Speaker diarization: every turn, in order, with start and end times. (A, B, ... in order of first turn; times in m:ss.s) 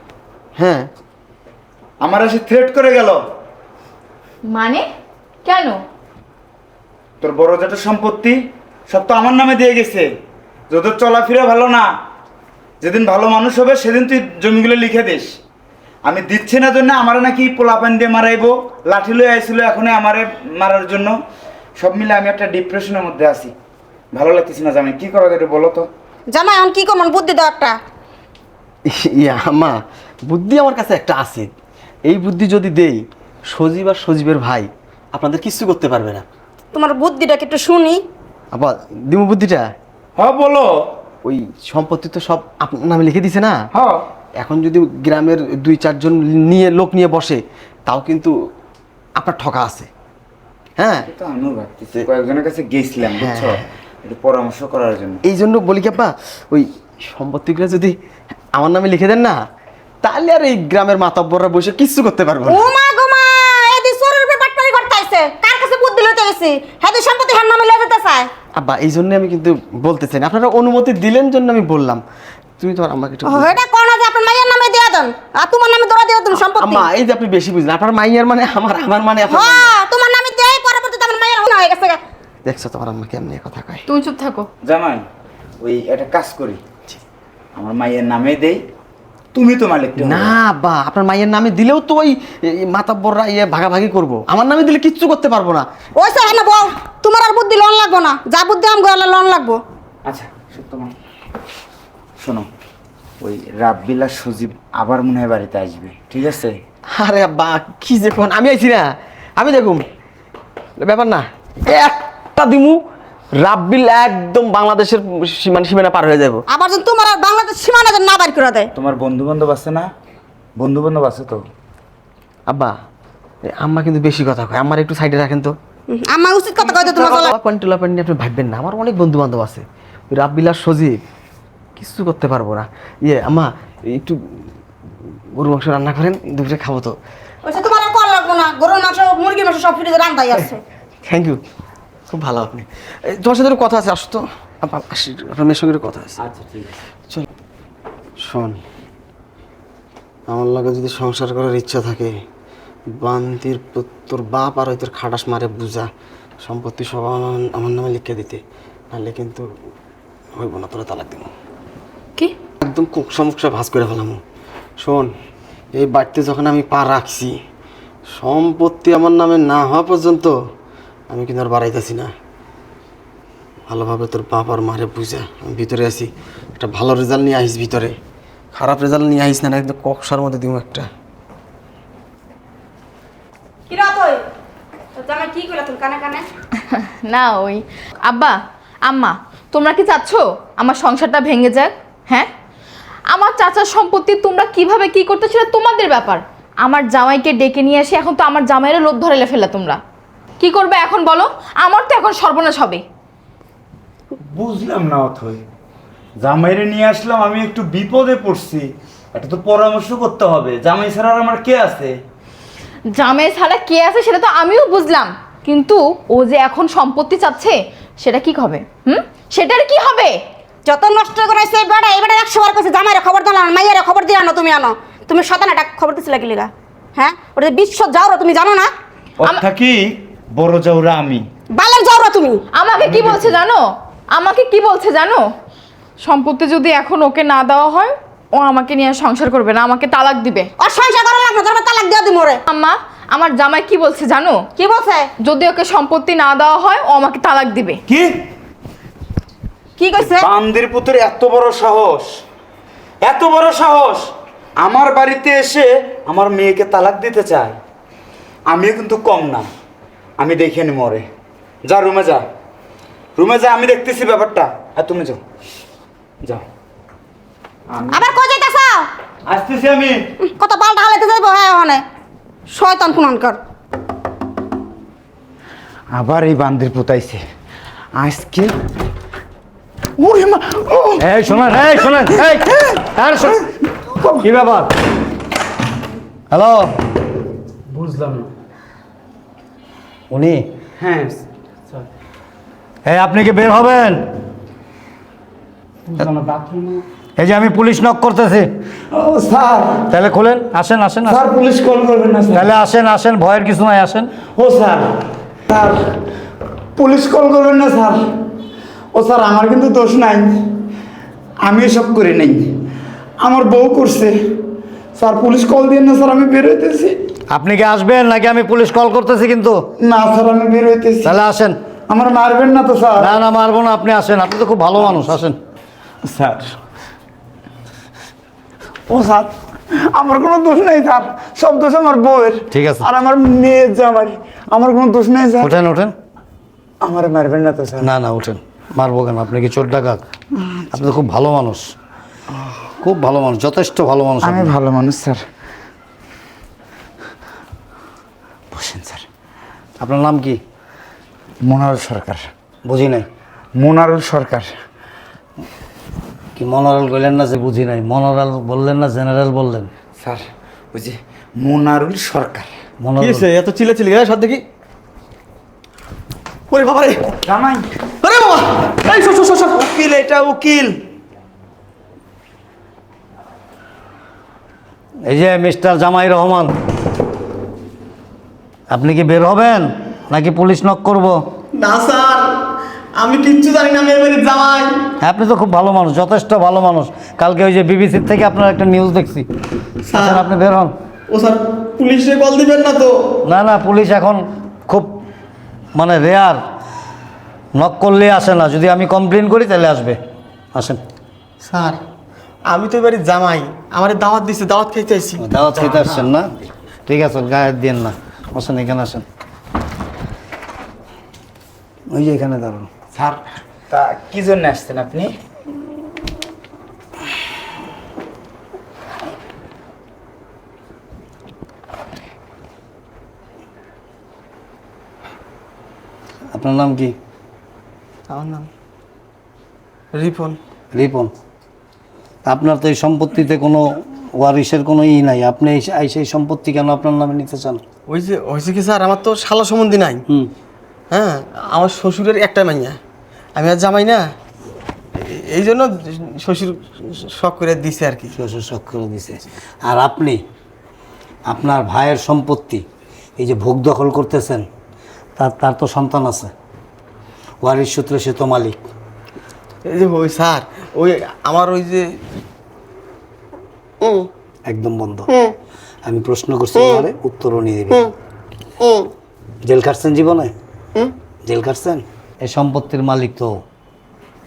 0:00.6-0:00.9 A
0:02.0-0:03.2 B
0:04.5-0:04.8 C
0:05.4-0:05.8 C
0:07.2-0:08.4 B
0:08.9-0:10.1 B
0:10.7-0:11.9 B
0:12.8-0:15.3 B
0:16.0-0:21.2 B
0:21.8-0:23.5 B
0:24.1-0:25.9 B
0:26.3-0:27.7 D
0:28.9-0:31.5 A
0:32.0-0:36.3 A
0:36.7-0:38.0 D
0:38.5-0:39.7 A
0:40.2-0:40.7 B
0:41.2-0:43.6 A
0:43.8-0:44.0 B
0:44.4-0:48.3 A
0:49.2-0:49.9 A
0:50.8-0:51.1 A
0:51.1-0:55.2 B
0:53.0-0:53.7 A
0:55.2-0:58.0 A
0:58.6-0:59.4 A
1:00.0-1:02.7 A
1:02.5-1:08.3 D
1:08.6-1:12.0 A
1:12.6-1:13.6 A
1:13.3-1:16.8 D
1:16.3-1:19.8 A
1:19.3-1:22.0 D
1:22.4-1:23.8 A
1:23.9-1:24.5 C
1:24.6-1:25.0 B
1:25.6-1:26.6 B
1:27.6-1:28.6 B
1:29.3-1:30.4 B
1:30.0-1:35.7 A
1:36.0-1:39.6 D
1:40.0-1:40.9 B
1:42.2-1:42.5 B
1:43.2-1:46.5 B
1:46.9-1:49.8 A
1:50.8-1:52.8 A
1:53.4-1:56.4 A
1:56.5-1:58.7 D
1:58.8-1:59.9 B
2:00.6-2:01.4 B
2:02.5-2:02.7 A
2:03.5-2:05.5 A
2:05.9-2:07.3 D
2:06.6-2:11.0 A
2:11.8-2:14.2 A
2:15.4-2:17.0 A
2:17.5-2:20.6 D
2:21.0-2:21.4 A
2:22.1-2:26.2 A
2:26.2-2:26.8 B
2:28.2-2:28.6 A
2:30.3-2:32.1 A
2:32.9-2:35.9 A
2:36.4-2:38.4 A
2:38.9-2:39.5 A
2:40.4-2:41.3 A
2:42.6-2:44.2 A
2:44.8-2:45.1 A
2:45.8-2:47.3 A
2:48.2-2:50.3 A
2:51.1-2:52.1 A
2:53.7-2:58.0 A
2:58.5-3:00.9 A
3:03.7-3:04.2 D
3:05.0-3:06.2 D
3:06.7-3:08.4 C
3:08.9-3:12.3 C
3:13.1-3:19.8 C
3:20.4-3:22.8 C
3:24.2-3:25.5 B
3:26.2-3:31.9 B
3:32.9-3:40.2 C
3:40.7-3:48.7 D
3:49.2-3:51.2 B
3:51.6-3:52.4 D
3:52.5-3:55.2 C
3:52.9-3:53.3 B
3:56.0-4:00.5 C
4:00.6-4:02.4 D
4:02.5-4:04.4 C
4:04.6-4:05.1 D
4:05.2-4:07.8 C
4:09.8-4:10.3 D
4:10.0-4:12.1 B
4:13.0-4:17.6 B
4:18.5-4:19.4 B
4:20.2-4:21.0 B
4:21.6-4:22.2 B
4:23.2-4:25.2 B
4:27.7-4:28.1 B
4:27.9-4:28.9 D
4:29.3-4:30.1 B
4:30.2-4:31.8 D
4:32.5-4:33.4 D
4:35.9-4:37.2 B
4:38.0-4:38.5 B
4:40.0-4:41.0 B
4:41.0-4:43.4 E
4:44.2-4:44.7 E
4:46.3-4:46.7 E
4:47.7-4:48.3 B
4:50.1-4:50.5 E
4:50.8-4:51.2 B
4:52.8-4:54.0 E
4:55.9-4:56.8 B
4:57.2-4:58.5 E
4:58.9-4:59.8 B
4:59.9-5:01.2 E
5:01.1-5:02.5 B
5:02.3-5:04.1 E
5:04.4-5:04.9 B
5:05.5-5:06.0 B
5:06.8-5:08.0 B
5:08.9-5:10.4 B
5:11.4-5:12.5 B
5:13.2-5:14.2 B
5:15.0-5:17.0 B
5:17.3-5:19.6 E
5:19.8-5:21.2 B
5:21.0-5:21.6 E
5:21.9-5:23.1 B
5:23.0-5:25.4 E
5:26.1-5:26.5 B
5:28.9-5:29.3 B
5:29.9-5:35.5 B
5:32.5-5:32.9 E
5:35.4-5:35.9 E
5:36.8-5:37.9 B
5:37.8-5:40.0 E
5:40.7-5:41.7 E
5:42.8-5:44.5 E
5:44.2-5:45.2 B
5:48.5-5:49.0 B
5:49.8-5:50.4 E
5:51.5-5:52.3 B
5:52.7-5:53.1 E
5:53.6-5:54.5 B
5:56.4-5:59.7 E
6:00.0-6:02.5 B
6:02.8-6:03.3 E
6:03.0-6:04.4 A
6:06.5-6:07.2 A
6:07.3-6:07.7 B
6:08.0-6:09.7 A
6:09.6-6:10.8 B
6:15.1-6:16.5 E
6:18.7-6:21.2 E
6:21.6-6:22.4 A
6:23.0-6:24.7 A
6:25.0-6:29.3 E
6:29.9-6:30.3 A
6:29.9-6:30.7 E
6:31.1-6:33.1 A
6:33.2-6:35.0 E
6:35.8-6:36.4 E
6:37.6-6:40.0 E
6:40.6-6:40.8 E
6:41.4-6:41.8 A
6:42.5-6:46.0 A
6:45.2-6:46.3 E
6:46.9-6:49.0 E
6:51.9-6:52.7 E
6:52.9-6:55.1 B
7:06.3-7:07.0 E
7:08.1-7:08.5 A
7:09.9-7:10.4 A
7:10.7-7:11.1 E
7:12.3-7:13.6 E
7:14.2-7:17.6 E
7:17.9-7:20.0 A
7:20.9-7:22.8 A
7:23.4-7:24.0 A
7:25.0-7:28.2 A
7:28.2-7:30.2 E
7:31.3-7:32.6 E
7:33.2-7:34.5 E
7:35.2-7:36.3 E
7:37.4-7:38.6 E
7:39.7-7:41.9 A
7:43.8-7:44.1 A
7:44.5-7:45.1 E
7:45.1-7:45.4 A
7:45.9-7:47.8 E
7:46.6-7:46.9 A
7:48.6-7:48.9 A
7:49.5-7:50.3 E
7:51.3-7:53.4 E